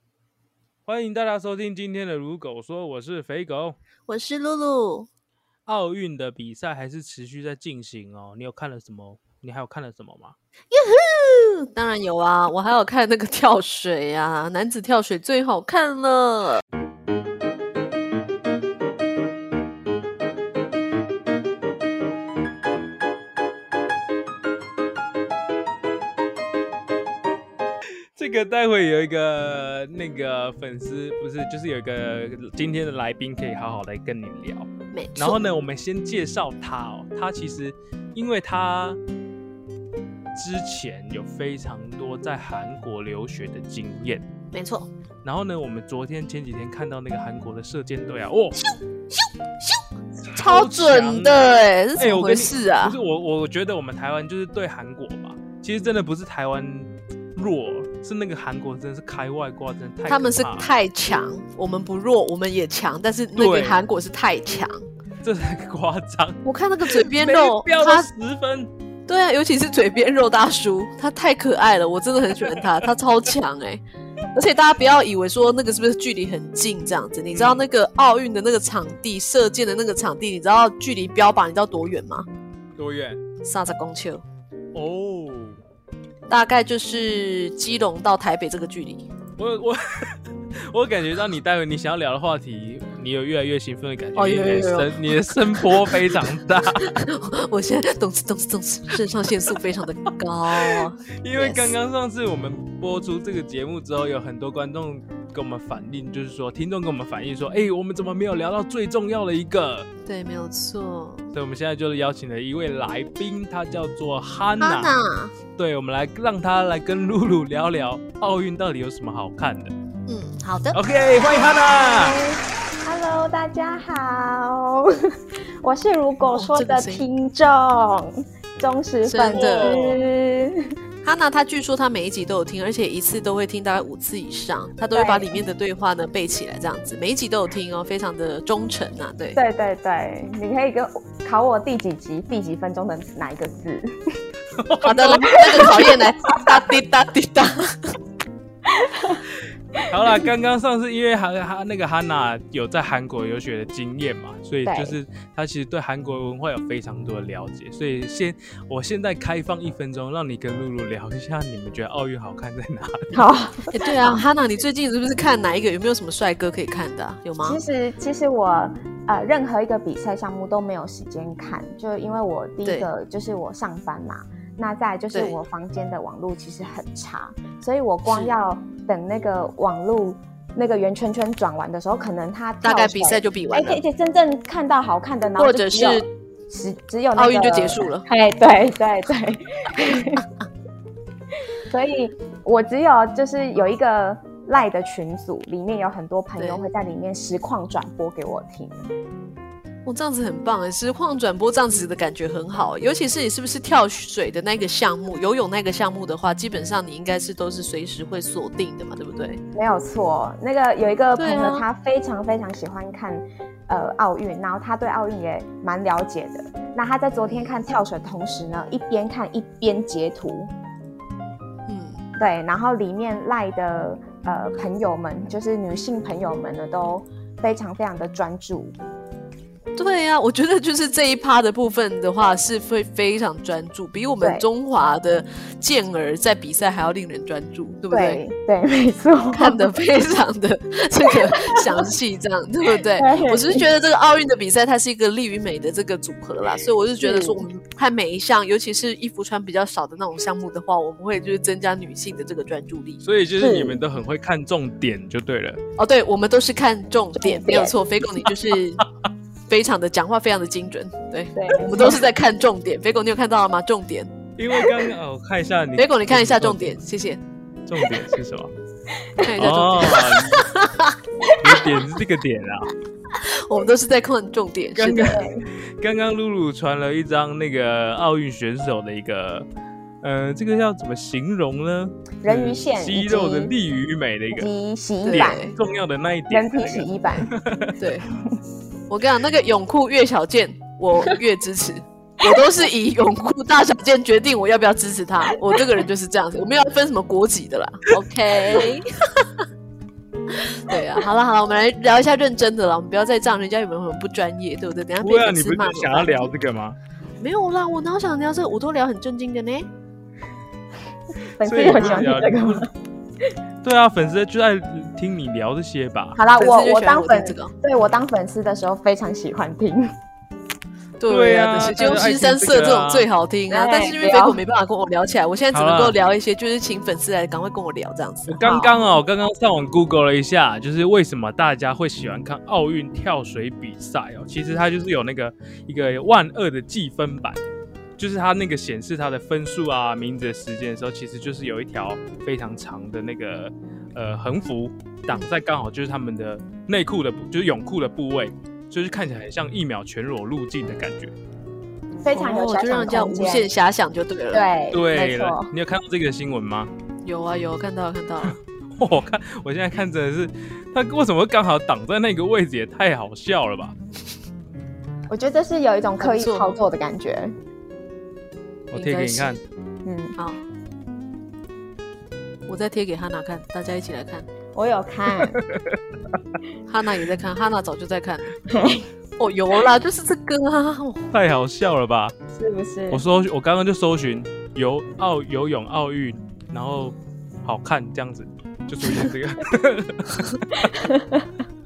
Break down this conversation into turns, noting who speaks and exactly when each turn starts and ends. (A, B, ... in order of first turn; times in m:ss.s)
0:00.9-0:03.8 A
0:04.1-0:05.1 B
0:05.7-0:10.4 A
0:10.7-0:16.6 B
0:28.1-0:39.0 A
0:34.9-0:35.4 B
0:40.3-0:44.2 A
0:44.5-0:44.9 B
0:45.2-0:48.6 A
0:48.7-0:49.8 B
0:50.3-1:00.7 A
0:50.3-0:53.0 B
1:00.1-1:04.8 B
1:03.4-1:03.8 A
1:05.2-1:08.7 A
1:06.4-1:08.1 B
1:09.1-1:13.8 B
1:14.3-1:22.3 B
1:17.3-1:17.6 A
1:22.8-1:23.2 A
1:23.4-1:24.2 B
1:24.7-1:25.6 A
1:26.3-1:29.0 B
1:29.4-1:30.2 A
1:30.7-1:36.9 A
1:34.2-1:36.0 B
1:36.8-1:41.7 B
1:40.5-1:49.9 A
1:50.0-1:51.3 B
1:51.3-1:55.0 A
1:54.6-1:55.3 B
1:55.6-1:59.7 A
2:00.1-2:00.8 B
2:00.7-2:02.2 A
2:01.3-2:04.9 C
2:05.6-2:10.6 C
2:06.3-2:07.0 B
2:09.0-2:10.0 B
2:09.2-2:10.0 A
2:11.0-2:19.4 B
2:14.9-2:15.2 C
2:19.3-2:24.2 C
2:24.6-2:25.8 A
2:24.8-2:27.9 B
2:25.3-2:26.4 C
2:28.6-2:29.2 C
2:29.8-2:43.2 A
2:29.8-2:30.2 C
2:34.6-2:35.0 C
2:43.1-2:44.2 C
2:43.7-2:47.6 B
2:47.4-3:10.2 C
2:58.0-2:58.3 B
3:02.6-3:03.8 B
3:05.4-3:06.1 B
3:07.2-3:08.0 B
3:11.6-3:18.9 C
3:19.8-3:29.4 B
3:29.5-3:40.5 C
3:31.2-3:31.7 B
3:37.2-3:37.6 B
3:41.7-3:42.0 B
3:42.2-3:48.7 C
3:49.8-3:58.2 B
3:57.9-3:59.7 C
3:59.3-4:13.0 B
4:01.1-4:01.8 C
4:03.0-4:03.6 C
4:07.0-4:07.4 C
4:13.0-4:15.6 A
4:13.4-4:13.8 C
4:15.8-4:18.8 B
4:17.2-4:17.8 C
4:19.5-4:24.1 B
4:21.3-4:22.0 C
4:24.4-4:26.8 A
4:25.8-4:27.2 B
4:27.7-4:28.5 A
4:29.0-4:29.3 C
4:29.2-4:31.0 B
4:29.4-4:30.5 A
4:31.2-4:32.0 C
4:31.4-4:32.7 A
4:33.1-4:35.2 B
4:34.7-4:39.4 A
4:35.1-4:35.4 C
4:40.0-4:44.5 A
4:42.2-4:43.5 C
4:44.3-4:45.4 C
4:45.0-4:45.6 B
4:45.1-4:47.8 A
4:46.3-4:47.3 C
4:47.8-4:48.0 B
4:48.9-4:59.4 B
5:00.3-5:06.3 B
5:05.0-5:06.8 A
5:07.2-5:09.7 B
5:11.2-5:12.7 C
5:11.4-5:12.7 A
5:13.6-5:16.2 A
5:16.2-5:19.9 C
5:16.4-5:17.5 B
5:21.0-5:28.4 B
5:21.1-5:23.1 A
5:23.5-5:24.4 C
5:25.5-5:26.0 A
5:28.3-5:37.4 A
5:28.4-5:29.0 C
5:38.0-5:51.1 A
5:52.0-5:53.5 C
5:52.1-5:54.5 B
5:54.3-5:55.5 C
5:54.7-5:56.7 A
5:57.0-5:58.4 B
5:58.8-6:03.7 A
6:05.1-6:07.3 C
6:06.0-6:06.5 B
6:08.7-6:09.4 A
6:08.7-6:09.4 B
6:09.8-6:10.2 C
6:12.5-6:14.3 B
6:14.5-6:15.4 C
6:15.3-6:15.8 A
6:16.7-6:21.0 B
6:18.5-6:18.8 C
6:21.1-6:22.1 A
6:22.3-6:23.0 C
6:22.9-6:30.7 A
6:30.6-6:31.3 C